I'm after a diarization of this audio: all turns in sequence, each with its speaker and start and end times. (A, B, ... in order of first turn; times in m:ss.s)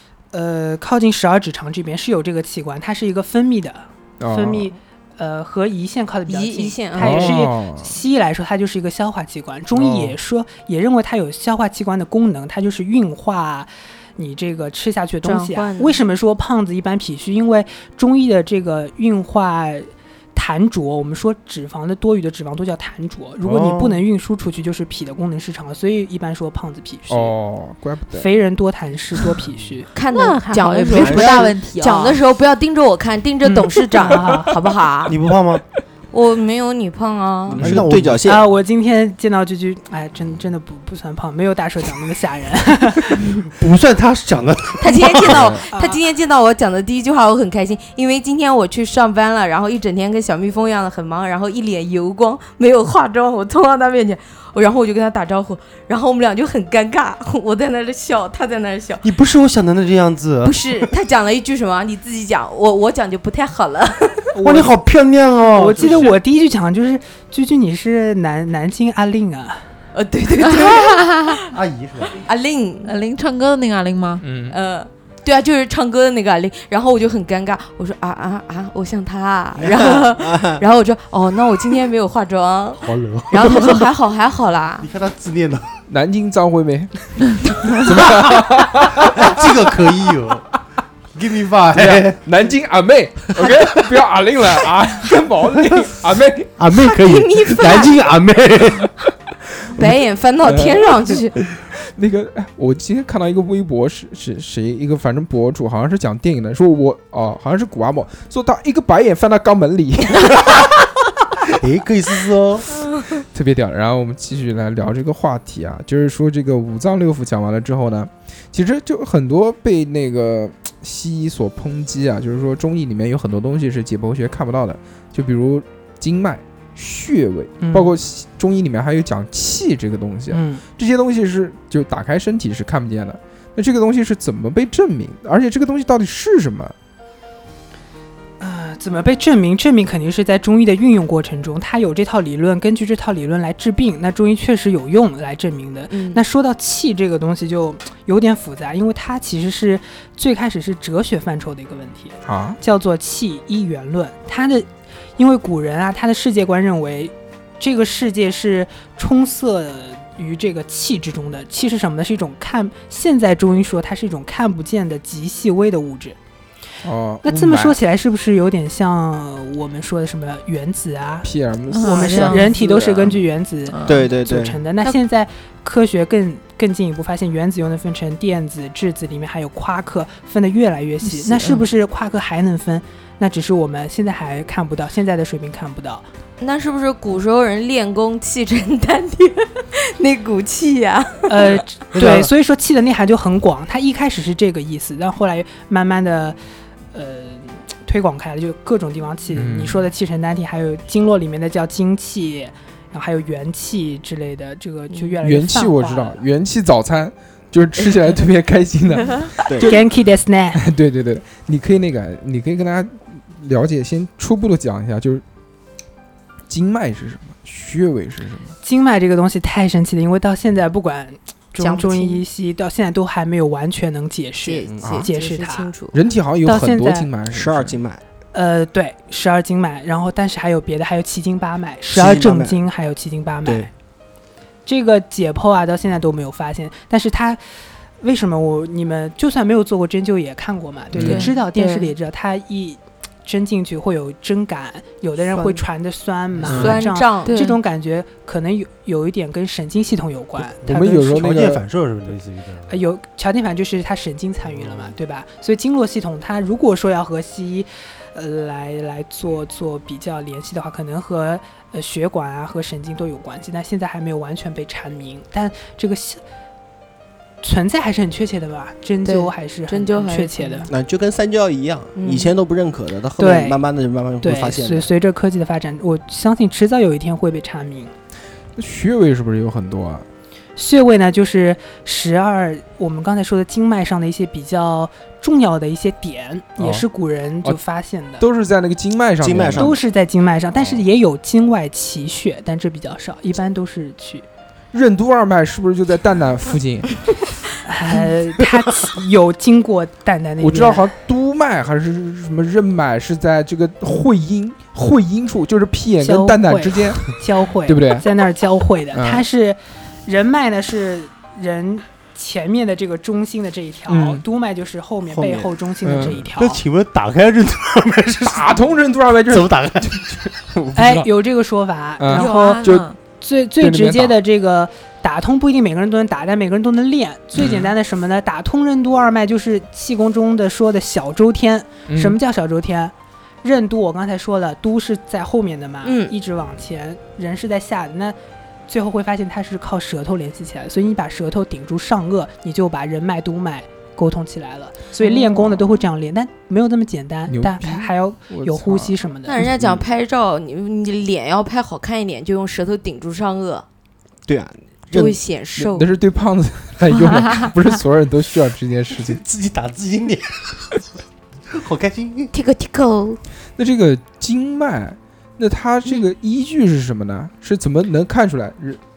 0:00.3-0:27.3 A
0:04.2-0:04.7 B
0:06.3-0:07.4 C
0:07.0-0:08.0 B
0:09.7-0:10.2 B
0:15.2-0:16.0 C
0:23.4-0:24.0 D
0:27.1-0:28.3 B
0:28.1-0:29.9 A
0:29.9-0:35.2 C
0:30.1-0:32.2 E
0:33.4-0:34.5 A
0:34.1-0:34.3 B
0:35.0-0:35.6 D
0:36.1-0:37.6 C
0:37.5-0:38.4 F
0:37.5-0:38.3 D
0:38.2-0:43.2 A
0:43.2-0:43.5 C
0:43.6-0:45.6 D
0:44.8-0:59.1 C
0:45.7-0:46.0 A
0:59.0-1:00.8 D
1:00.4-1:04.3 C
1:04.3-1:04.7 A
1:04.4-1:06.2 D
1:05.5-1:09.6 A
1:09.9-1:11.5 C
1:10.4-1:11.4 E
1:11.5-1:12.2 D
1:12.1-1:12.9 C
1:12.8-1:14.2 E
1:14.2-1:14.6 B
1:14.5-1:24.9 C
1:19.6-1:20.6 F
1:22.8-1:23.8 D
1:24.8-1:25.7 D
1:25.9-1:29.9 B
1:27.9-1:30.5 D
1:31.1-1:32.2 D
1:31.7-1:36.6 B
1:36.6-1:38.9 D
1:36.8-1:38.0 C
1:39.8-1:41.2 B
1:39.8-1:41.4 C
1:41.9-1:50.6 B
1:51.5-1:52.7 D
1:53.3-2:16.7 B
2:07.6-2:07.9 A
2:10.3-2:10.6 A
2:18.4-2:46.2 A
2:25.9-2:26.2 C
2:32.2-2:32.6 B
2:46.8-2:47.8 B
2:47.2-2:51.3 A
2:51.2-2:53.1 B
2:51.7-2:52.5 E
2:51.8-3:06.0 A
2:52.6-2:52.9 F
2:53.7-2:54.0 E
2:53.8-2:54.6 F
3:06.4-3:11.6 C
3:11.3-3:16.4 A
3:11.9-3:12.3 D
3:16.9-3:26.2 A
3:19.3-3:19.9 B
3:25.2-3:29.8 B
3:29.5-3:29.8 F
3:29.6-3:30.6 A
3:30.5-3:35.2 B
3:36.5-3:38.5 B
3:38.6-3:45.7 A
3:41.6-3:42.2 C
3:44.4-3:45.9 C
3:44.7-3:45.0 F
3:44.8-3:45.1 B
3:45.9-3:47.8 B
3:46.4-3:47.1 A
3:47.3-3:48.0 F
3:48.3-3:53.7 A
3:51.9-3:52.6 F
3:54.6-3:57.4 A
3:58.0-4:11.3 A
4:00.9-4:01.3 B
4:01.0-4:01.3 E
4:01.5-4:01.9 C
4:06.4-4:07.4 C
4:06.4-4:06.8 B
4:07.2-4:07.6 E
4:10.4-4:11.6 B
4:10.7-4:12.8 D
4:12.7-4:26.2 A
4:14.6-4:14.8 D
4:27.4-4:30.7 A
4:29.0-4:30.7 C
4:30.7-4:34.8 F
4:32.0-4:32.3 C
4:33.2-4:33.6 A
4:34.2-4:37.9 A
4:38.6-4:40.0 B
4:40.6-4:48.2 A
4:46.6-4:46.8 B
4:48.2-4:49.8 B
4:49.2-4:49.8 F
4:49.5-4:54.2 A
4:50.6-4:50.8 B
4:54.7-4:57.0 B
4:57.6-5:00.9 A
5:00.4-5:08.1 B
5:06.0-5:16.6 A
5:08.9-5:09.2 B
5:13.9-5:14.2 B
5:15.1-5:15.5 F
5:15.8-5:16.2 B
5:16.3-5:18.7 D
5:18.2-5:21.1 B
5:19.3-5:20.3 D
5:20.7-5:38.2 A
5:22.0-5:22.9 B
5:22.1-5:23.0 E
5:23.6-5:24.2 B
5:27.3-5:27.7 B
5:31.9-5:32.2 B
5:35.8-5:36.1 C
5:38.7-5:49.5 A
5:45.0-5:45.6 C
5:47.3-5:49.0 B
5:49.3-5:53.6 C
5:49.5-5:49.8 F
5:54.3-5:55.2 F
5:54.9-5:55.9 C
5:55.6-5:59.2 B
5:57.0-5:57.5 E
5:58.9-6:00.8 D
6:01.5-6:02.3 D
6:02.3-6:03.2 C
6:03.6-6:08.8 B